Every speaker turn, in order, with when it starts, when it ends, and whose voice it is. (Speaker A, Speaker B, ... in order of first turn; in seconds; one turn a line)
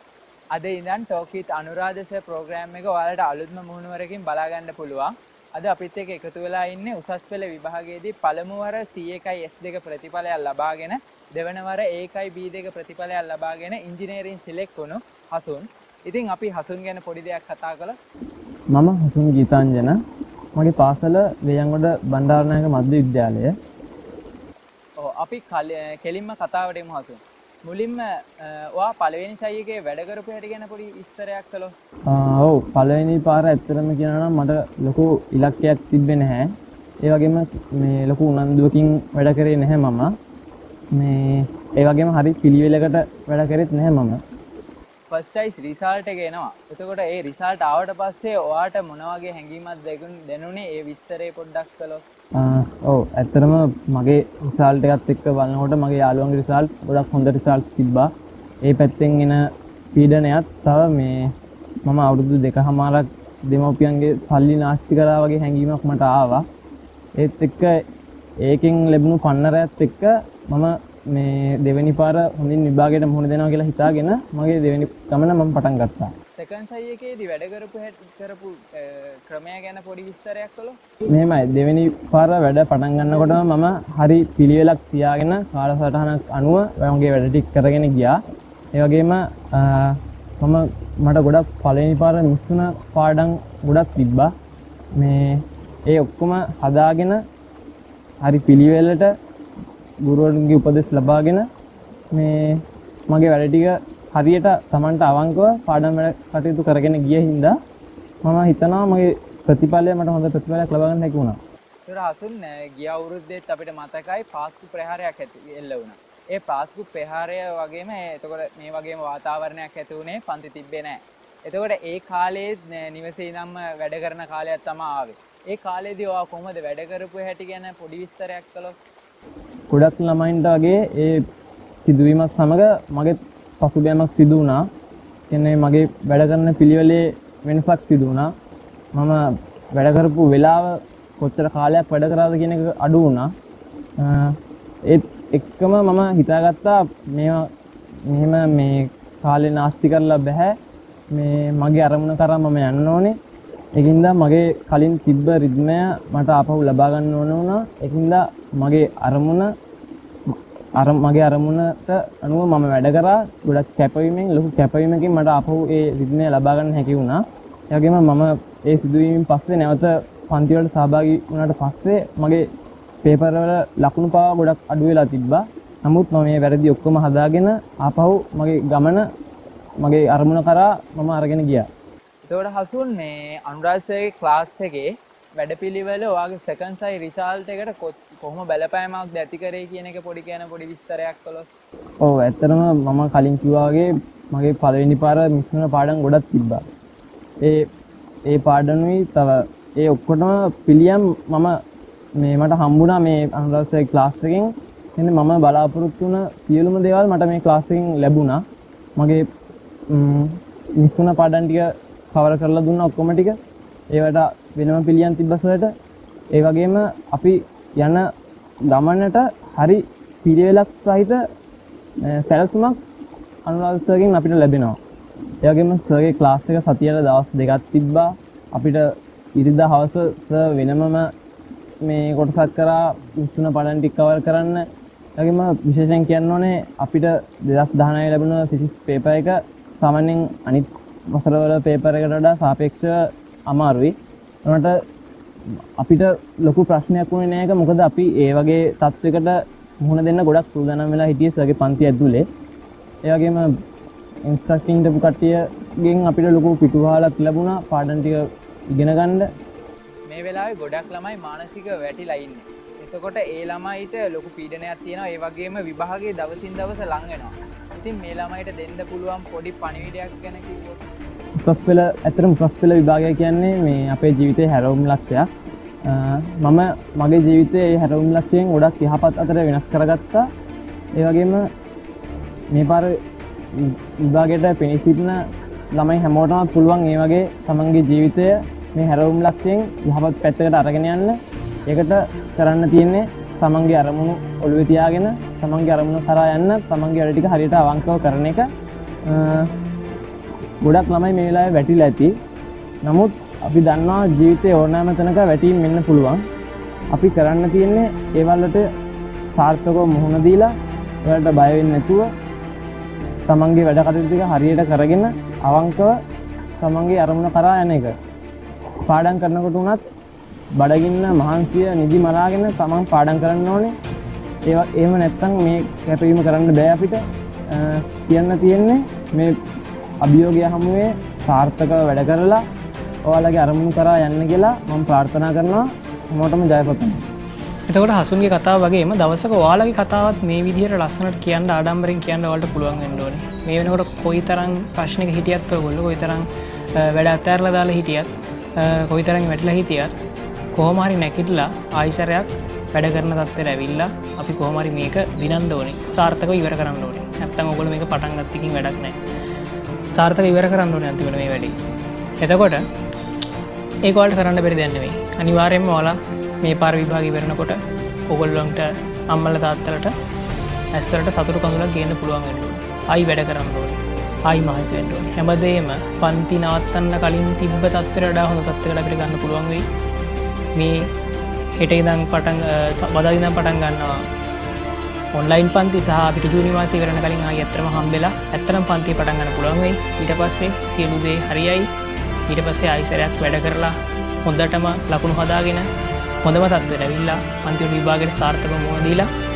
Speaker A: 0.5-18.0
Speaker B: 18.7-20.0
Speaker B: 20.6-23.5
Speaker A: 25.0-31.7
Speaker B: 32.1-40.1
Speaker B: 40.9-44.2
Speaker A: 45.1-52.0
Speaker B: 52.4-58.1
Speaker B: 58.6-61.3
Speaker B: 61.8-66.4
Speaker B: 67.2-67.8
Speaker B: 68.4-76.1
Speaker A: 76.4-80.8
Speaker B: 81.1-88.2
Speaker B: 88.7-94.3
Speaker B: 95.0-97.2
Speaker B: 98.2-99.1
Speaker B: 100.0-101.5
Speaker B: 102.1-107.6
Speaker B: 108.2-111.4
Speaker A: 111.8-128.8
Speaker B: 129.7-131.2
Speaker B: 131.8-134.6
Speaker B: 135.3-138.3
Speaker B: 138.9-143.3
Speaker B: 144.0-147.5
Speaker B: 148.1-150.6
Speaker B: 151.1-153.2
Speaker B: 153.8-159.5
Speaker B: 160.3-172.5
Speaker B: 173.0-179.1
Speaker B: 179.8-181.7
Speaker A: 182.2-191.5
Speaker B: 192.0-196.6
Speaker B: 197.4-197.7
Speaker B: 198.3-201.6
Speaker B: 202.2-208.4
Speaker B: 209.0-209.2
Speaker B: 209.9-213.4
Speaker B: 213.9-215.7
Speaker B: 216.3-218.1
Speaker B: 218.7-221.2
Speaker B: 222.0-222.8
Speaker B: 223.5-224.8
Speaker B: 225.4-231.1
Speaker B: 231.8-243.9
Speaker B: 244.4-244.8
Speaker B: 245.8-252.2
Speaker B: 253.0-253.5
Speaker B: 254.2-259.3
Speaker A: 260.1-270.8
Speaker B: 271.4-275.3
Speaker B: 275.8-280.3
Speaker B: 280.9-281.5
Speaker B: 282.5-282.9
Speaker B: 283.5-285.2
Speaker B: 285.7-298.5
Speaker B: 299.0-299.5
Speaker B: 300.6-302.1
Speaker B: 302.8-306.2
Speaker B: 306.9-308.7
Speaker B: 309.3-312.1
Speaker B: 313.3-315.9
Speaker B: 316.6-317.9
Speaker B: 318.8-319.8
Speaker B: 320.5-323.8
Speaker B: 324.4-329.4
Speaker B: 330.0-332.4
Speaker B: 333.0-337.1
Speaker C: 337.7-349.9
Speaker C: 350.5-359.0
Speaker C: 359.9-361.6
Speaker C: 362.2-362.6
Speaker C: 363.8-369.9
Speaker C: 370.7-379.6
Speaker C: 380.5-380.9
Speaker C: 381.6-384.1
Speaker C: 385.1-391.7
Speaker C: 392.3-395.7
Speaker C: 396.2-399.1